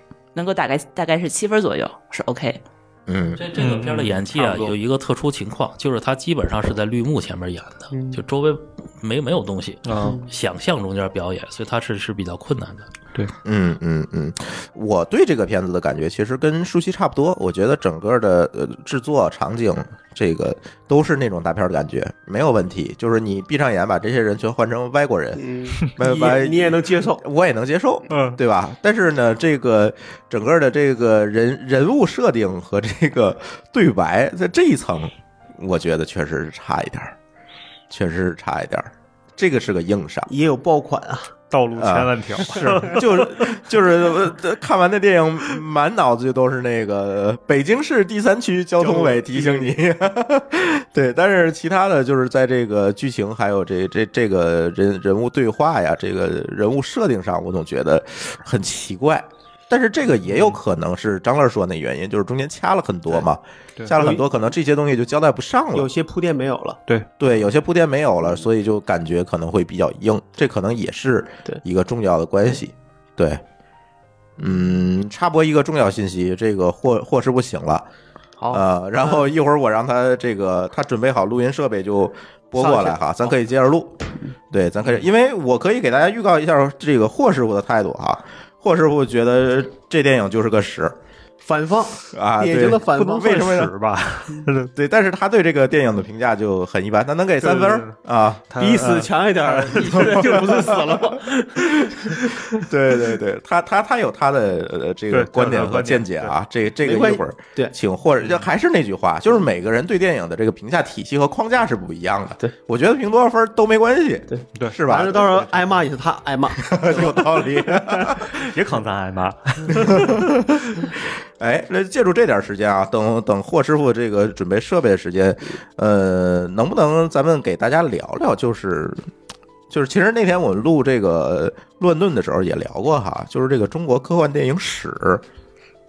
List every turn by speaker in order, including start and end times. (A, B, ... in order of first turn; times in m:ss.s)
0:00.4-0:02.6 A
0:03.1-0:03.4 B
0:03.4-0:12.9 C
0:03.6-0:04.7 D
0:07.9-0:08.2 E
0:09.8-0:10.2 D
0:10.0-0:10.3 E
0:13.4-0:25.4 B
0:25.4-0:27.2 E
0:26.0-0:37.1 B
0:28.1-0:28.4 D
0:37.9-0:40.3 B
0:40.3-0:41.3 E
0:41.5-0:43.0 D
0:41.8-1:05.9 B
0:48.8-0:49.7 D
1:00.3-1:00.6 D
1:04.0-1:04.2 E
1:05.7-1:06.8 E
1:07.2-1:13.4 B
1:14.4-1:17.9 B
1:18.4-1:19.3 E
1:18.5-1:24.0 B
1:22.6-1:23.0 E
1:24.5-1:30.9 B
1:31.4-1:33.4 E
1:32.1-1:33.7 B
1:33.2-1:34.7 D
1:34.8-1:38.4 B
1:37.4-1:38.0 D
1:38.5-1:41.4 D
1:38.6-1:41.9 E
1:42.6-1:55.2 B
1:45.1-1:46.3 D
1:46.8-1:47.8 E
1:48.2-1:48.5 D
1:54.3-1:57.6 E
1:56.6-1:58.4 B
1:58.2-2:00.3 D
1:59.7-2:00.7 B
2:01.4-2:09.1 B
2:09.7-2:15.2 B